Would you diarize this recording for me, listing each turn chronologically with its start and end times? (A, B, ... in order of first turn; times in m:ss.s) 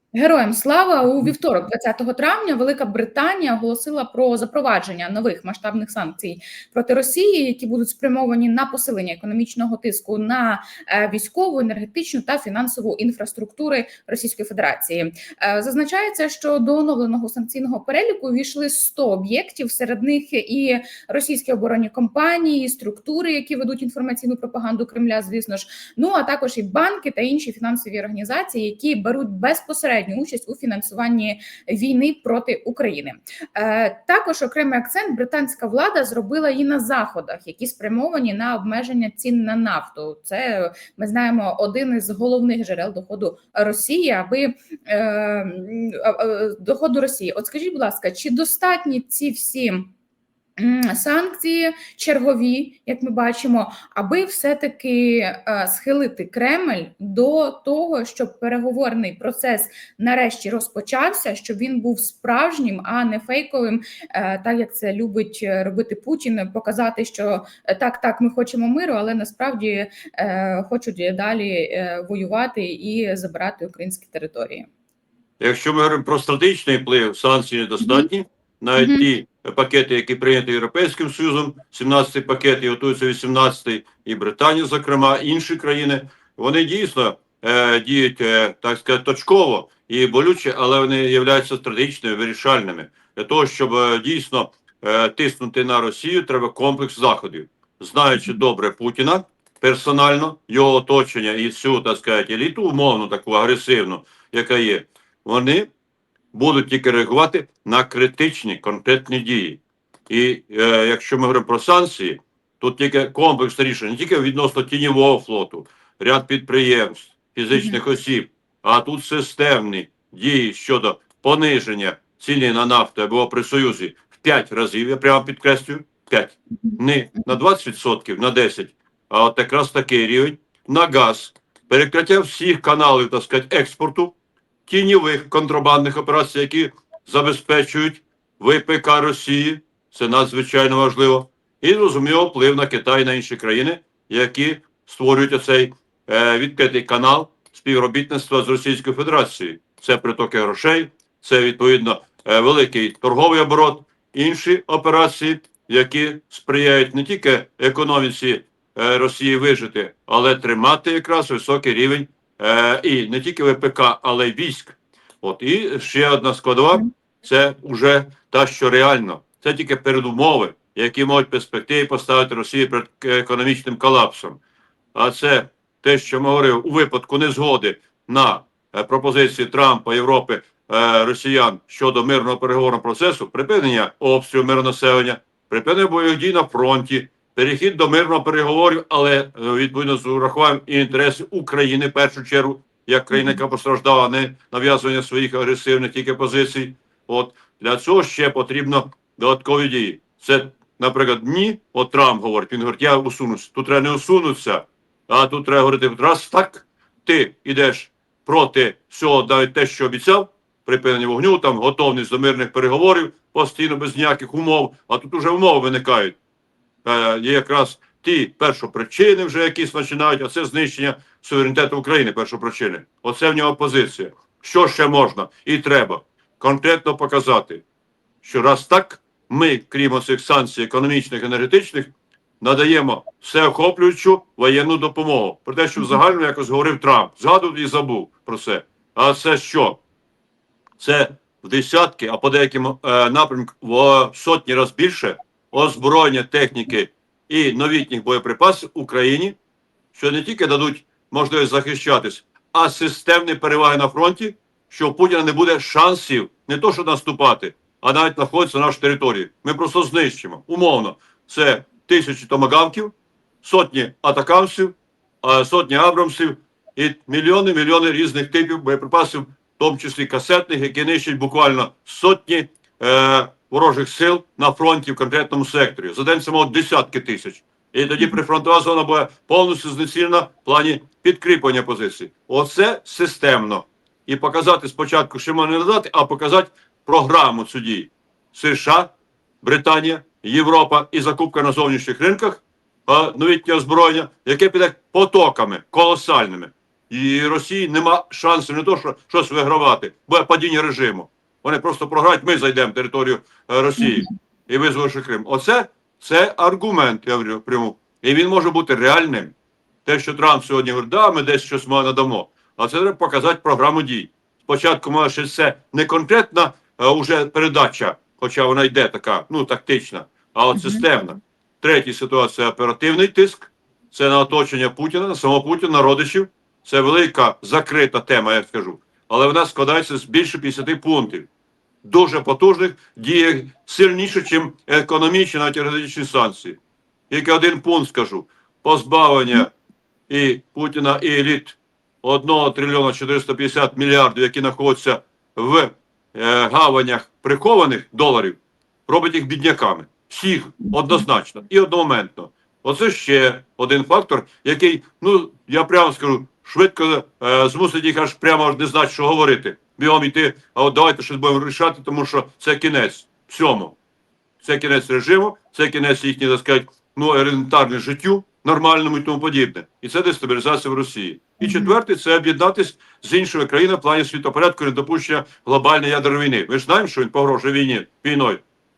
0:00.1-0:49.9 A
0:50.6-1:14.7 A
1:15.4-1:45.7 B
1:17.8-1:18.1 A
1:18.8-1:19.1 A
1:46.3-2:14.2 B
2:06.6-2:07.3 A
2:14.7-2:54.4 B
2:54.9-3:36.2 B
3:13.1-3:13.4 A
3:36.8-3:47.6 B
3:48.2-3:59.8 B
4:00.8-4:09.4 B
4:09.9-5:09.3 B
5:03.8-5:04.1 A
5:09.8-5:31.3 B
5:20.5-5:20.8 A
5:31.8-5:36.6 B
5:37.1-5:39.5 B
5:40.1-6:03.8 B
5:50.6-5:51.0 A
6:04.4-6:18.4 B
6:11.4-6:11.8 A